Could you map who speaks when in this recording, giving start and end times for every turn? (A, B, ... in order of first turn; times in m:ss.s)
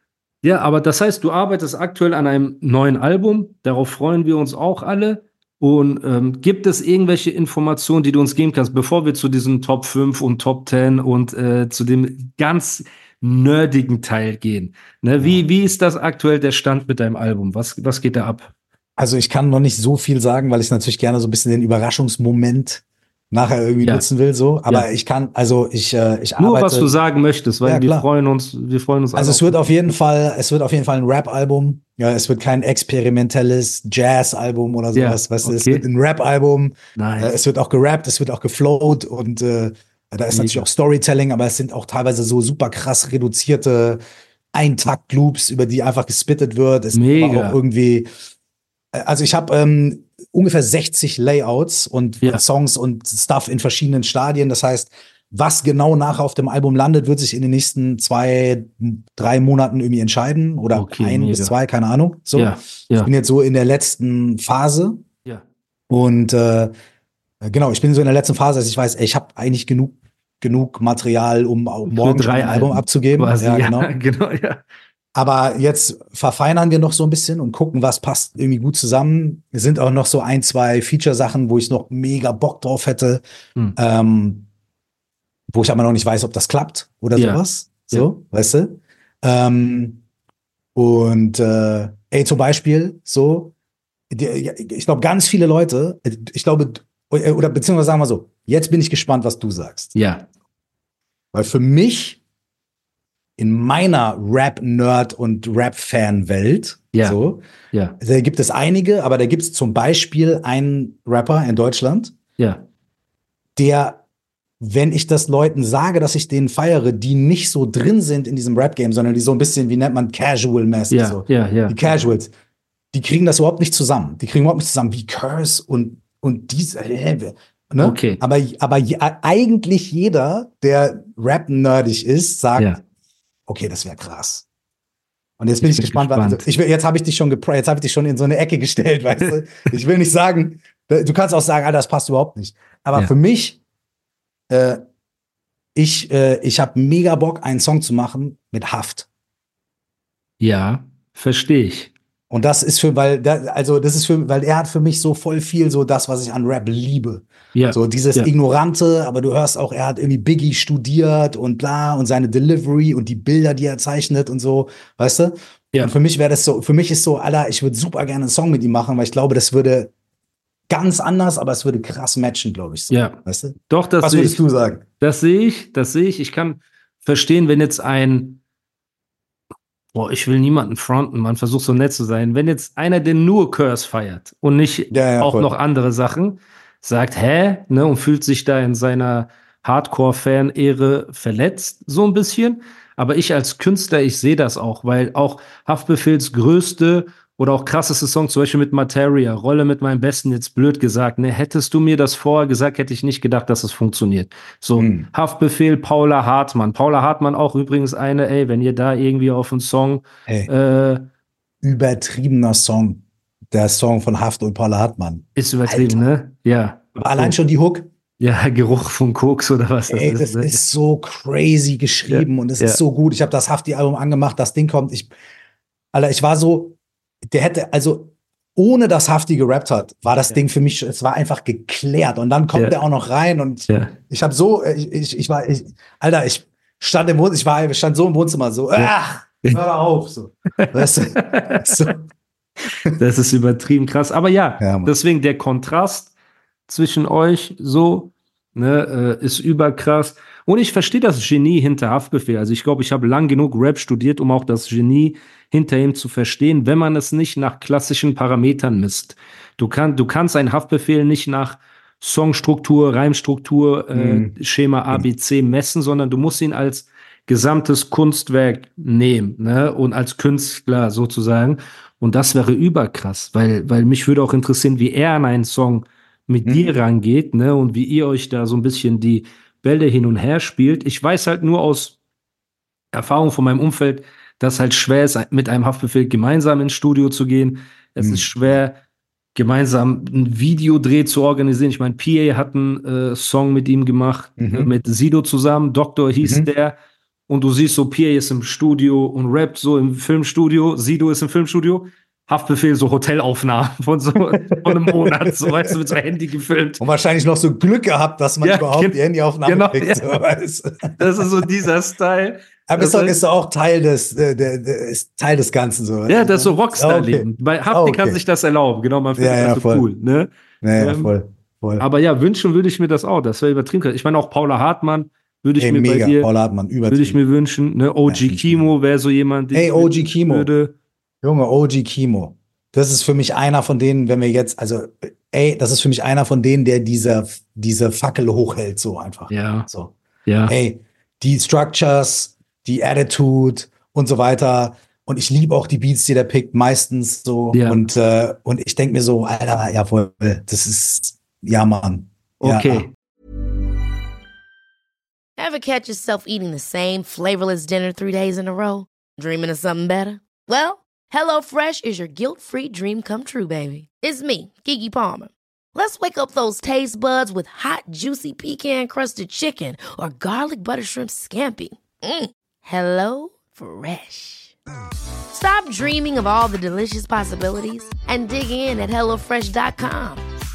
0:00.4-0:18.5 A
0:15.2-0:15.4 B
0:19.0-0:26.9 B
0:26.4-0:29.6 A
0:27.6-0:28.1 B
0:29.2-0:44.0 B
0:34.9-0:35.9 A
0:37.0-0:37.3 A
0:40.3-0:40.6 A
0:44.5-0:48.1 B
0:46.9-0:47.6 A
0:48.9-1:05.0 B
1:00.7-1:01.5 A
1:02.4-1:03.1 A
1:05.9-1:06.7 B
1:07.4-1:13.9 B
1:11.9-1:14.6 A
1:15.2-1:23.2 B
1:23.8-1:24.5 B
1:25.5-1:30.0 B
1:27.2-1:28.1 A
1:30.8-1:33.5 B
1:34.1-1:40.0 B
1:40.0-1:40.3 A
1:41.3-1:42.2 B
1:43.4-1:47.4 B
1:47.7-1:48.0 A
1:48.0-1:52.2 B
1:53.6-1:54.0 B
1:54.6-2:02.3 B
2:00.9-2:01.8 A
2:02.9-2:12.8 B
2:07.8-2:08.2 A
2:13.5-2:14.5 B
2:15.4-2:23.6 B
2:15.6-2:16.4 A
2:24.5-2:24.8 B
2:25.8-2:29.1 B
2:30.4-2:31.9 A
2:32.3-2:49.9 B
2:37.6-2:38.3 A
2:50.7-2:54.8 B
2:52.9-2:54.4 A
2:55.0-2:58.4 A
2:59.9-3:31.0 A
3:04.9-3:05.5 B
3:24.8-3:25.1 B
3:31.6-3:36.0 B
3:35.4-3:37.4 A
3:37.0-3:37.9 B
3:38.2-3:40.6 A
3:39.9-3:45.1 B
3:42.1-3:42.8 A
3:45.9-4:02.0 B
3:53.7-3:54.0 A
3:58.8-3:59.6 A
4:00.6-4:01.9 A
4:03.0-4:06.1 A
4:04.6-4:04.9 B
4:06.7-4:42.0 A
4:23.9-4:24.4 B
4:36.4-4:36.7 B
4:42.9-4:48.8 A
4:48.0-4:48.3 B
4:49.4-4:56.8 A
4:54.4-4:54.7 B
4:56.2-4:56.5 B
4:57.3-5:06.8 A
5:04.2-5:05.8 B
5:06.8-5:11.5 B
5:08.4-5:10.2 A
5:11.0-5:13.2 A
5:12.7-5:18.2 B
5:16.1-5:21.1 A
5:19.2-5:19.9 B
5:20.6-5:21.9 B
5:21.8-5:26.3 A
5:25.6-5:27.2 B
5:26.9-5:30.8 A
5:28.1-5:28.7 B
5:29.5-5:30.5 B
5:31.2-5:40.0 B
5:39.3-5:39.7 A
5:40.3-5:40.5 A
5:40.5-5:52.9 B
5:47.5-5:47.8 A
5:52.4-5:52.9 A
5:55.4-6:14.5 C
6:15.3-6:20.2 C